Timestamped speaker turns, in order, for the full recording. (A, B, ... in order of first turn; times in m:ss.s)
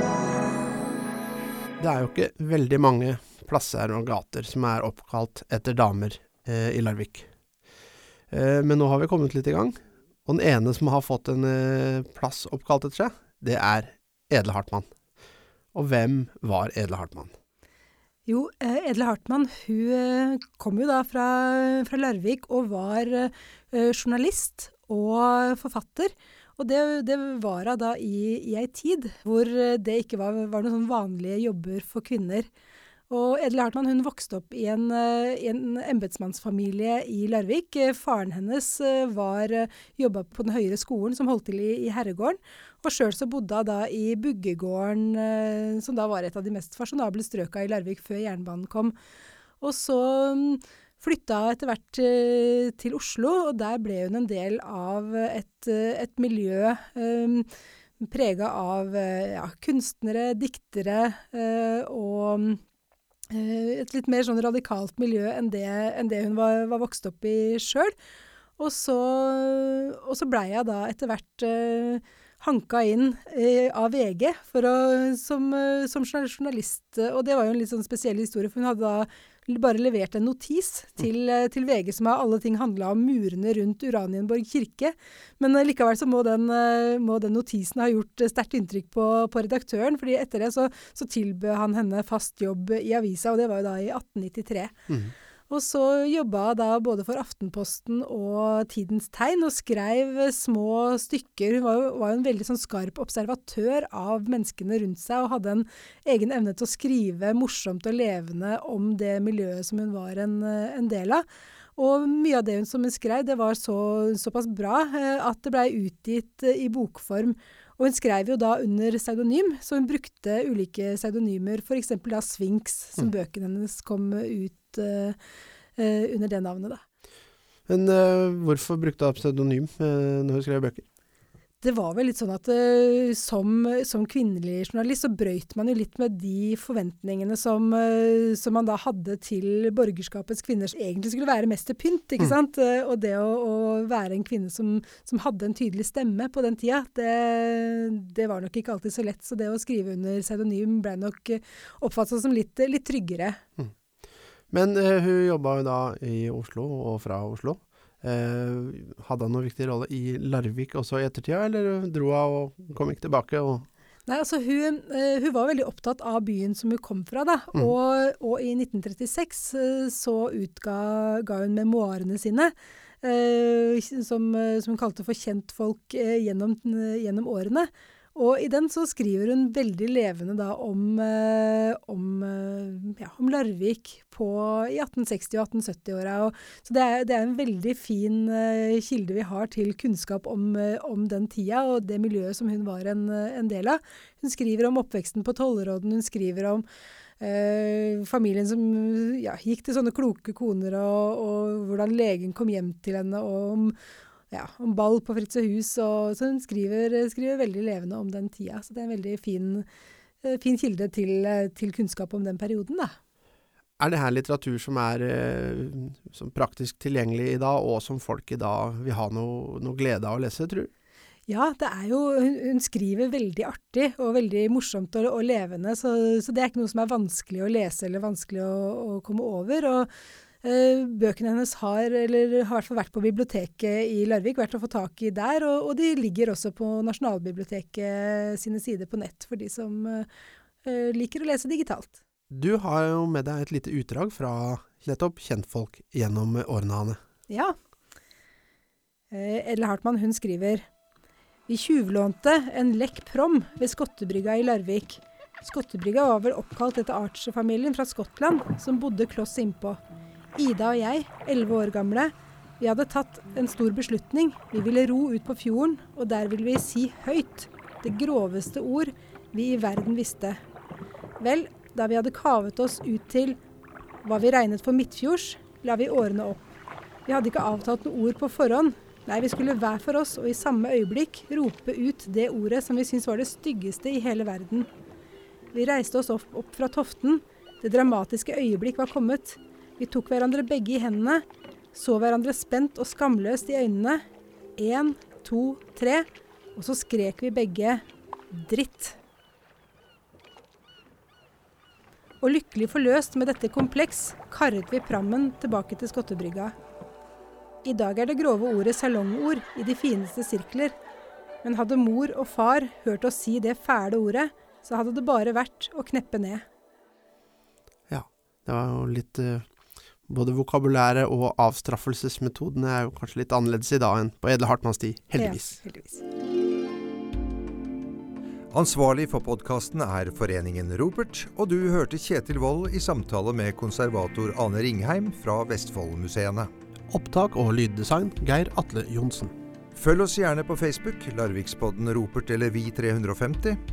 0:01.8-0:07.3 A
0:08.3-0:14.9 A
0:15.7-0:17.3 A
0:18.3-0:32.5 B
0:33.1-0:48.9 B
0:49.6-0:57.4 B
0:58.0-1:02.6 B
1:03.3-1:07.9 B
1:08.6-1:34.8 B
1:35.5-1:51.2 B
1:51.8-2:05.2 B
2:05.8-2:06.8 B
2:07.7-2:10.8 A
2:11.6-2:33.4 B
2:34.5-2:43.7 A
2:44.1-3:16.6 B
3:17.2-3:23.7 B
3:24.3-3:29.6 B
3:30.2-3:32.9 B
3:33.8-3:40.7 A
3:41.3-3:49.9 B
3:50.4-4:00.1 B
4:00.6-4:02.0 B
4:02.3-4:07.0 A
4:07.3-4:07.5 B
4:09.1-4:10.6 B
4:11.5-4:19.8 B
4:20.3-4:30.4 B
4:31.2-4:33.4 B
4:34.0-4:36.5 B
4:37.1-4:44.7 B
4:45.5-4:54.0 B
4:54.6-4:59.0 B
5:02.2-5:06.5 B
5:07.6-5:10.8 B
5:11.4-5:16.4 B
5:17.9-5:19.4 A
5:20.1-5:25.6 A
5:25.2-5:26.0 B
5:28.5-5:36.5 C
5:36.9-5:39.3 A
5:39.8-5:43.6 C